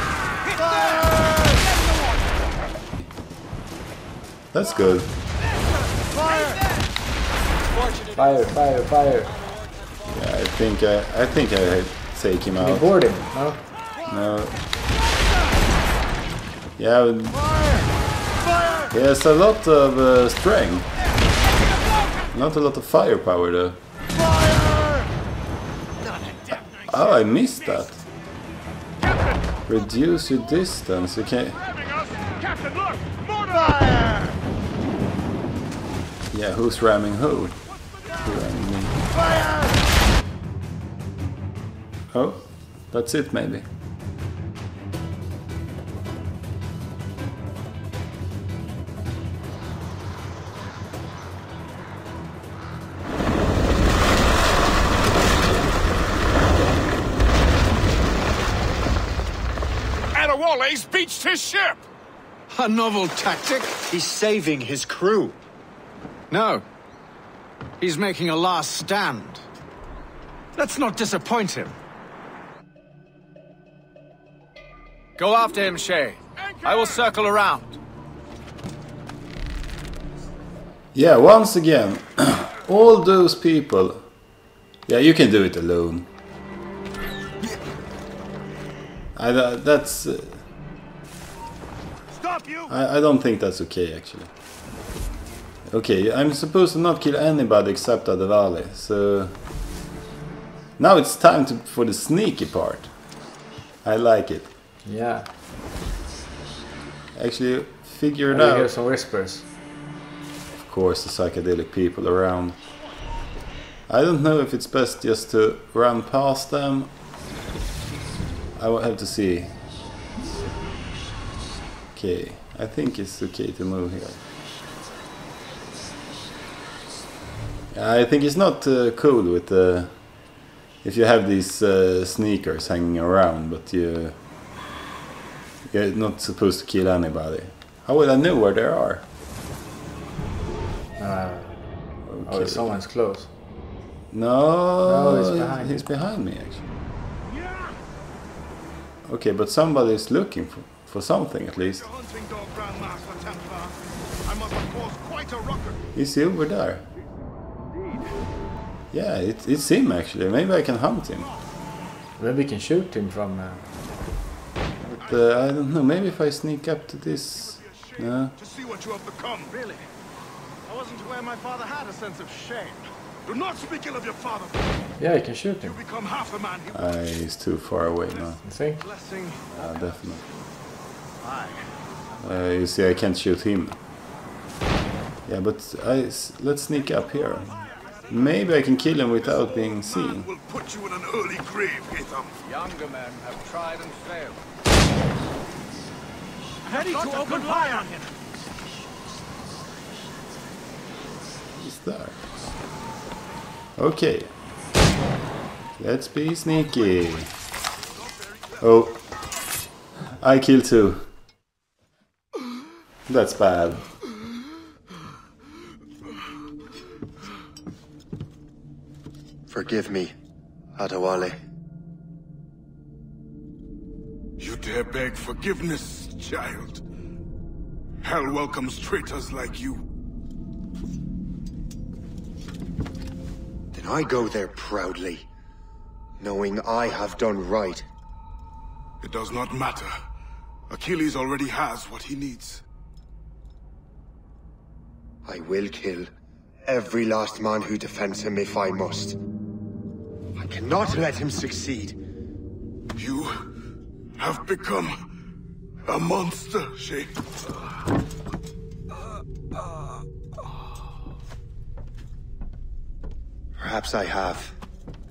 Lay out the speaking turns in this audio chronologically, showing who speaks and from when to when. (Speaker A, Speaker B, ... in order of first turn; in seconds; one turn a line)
Speaker A: 4.5-5.1
Speaker B: 7.8-8.1
Speaker C: 8.1-9.3
Speaker A: 10.1-12.9
Speaker C: 12.6-13.6
Speaker A: 14.0-14.6
Speaker A: 16.8-17.7
Speaker A: 18.9-20.9
Speaker A: 22.3-23.8
Speaker A: 26.8-28.0
Speaker D: 29.0-29.4
Speaker A: 29.7-31.6
Speaker D: 31.6-34.2
Speaker A: 36.3-39.2
Speaker A: 42.1-43.6
Speaker D: 60.1-61.8
Speaker E: 62.5-63.7
Speaker B: 63.9-65.4
Speaker E: 66.3-66.6
Speaker E: 67.8-69.4
Speaker E: 70.5-71.8
Speaker E: 75.2-77.8
Speaker D: 76.4-77.0
Speaker A: 80.9-84.1
Speaker A: 84.9-86.1
Speaker A: 89.2-90.4
Speaker B: 92.2-92.7
Speaker A: 92.7-94.3
Speaker A: 95.7-99.3
Speaker A: 100.8-102.9
Speaker A: 103.8-104.5
Speaker C: 104.8-105.3
Speaker A: 107.1-108.7
Speaker C: 108.3-109.5
Speaker A: 110.5-112.6
Speaker A: 113.9-116.9
Speaker A: 118.6-119.6
Speaker A: 121.9-124.2
Speaker A: 127.7-130.3
Speaker A: 130.8-134.2
Speaker A: 135.7-139.1
Speaker C: 141.0-141.6
Speaker A: 142.1-142.8
Speaker C: 142.2-143.3
Speaker A: 144.1-146.7
Speaker C: 144.8-145.8
Speaker A: 149.1-151.9
Speaker F: 151.6-153.7
Speaker F: 154.2-155.8
Speaker A: 155.9-156.8
Speaker A: 158.9-161.3
Speaker C: 162.2-163.7
Speaker A: 164.8-168.3
Speaker F: 167.5-169.5
Speaker E: 169.5-169.8
Speaker E: 170.7-172.8
Speaker F: 173.2-174.9
Speaker C: 175.0-175.8
Speaker F: 175.6-176.9
Speaker A: 176.7-178.4
Speaker C: 178.4-178.8
Speaker E: 178.8-179.6
Speaker A: 179.5-180.2
Speaker A: 182.2-183.8
Speaker A: 185.2-190.3
Speaker F: 189.2-192.4
Speaker E: 192.4-194.4
Speaker E: 196.7-198.1
Speaker F: 196.9-197.4
Speaker A: 201.5-202.2
Speaker A: 203.8-204.3
Speaker A: 205.8-207.3
Speaker A: 208.6-209.0
Speaker A: 210.2-211.1
Speaker A: 213.1-213.9
Speaker B: 219.5-220.1
Speaker B: 220.8-221.3
Speaker F: 224.4-226.8
Speaker F: 228.0-229.8
Speaker B: 233.7-235.3
Speaker B: 236.2-237.8
Speaker F: 239.0-239.9
Speaker F: 240.7-242.6
Speaker B: 245.2-246.1
Speaker B: 246.7-249.2
Speaker B: 250.4-251.9
Speaker F: 252.9-253.3
Speaker F: 254.2-255.0
Speaker F: 255.8-257.1
Speaker B: 263.6-264.5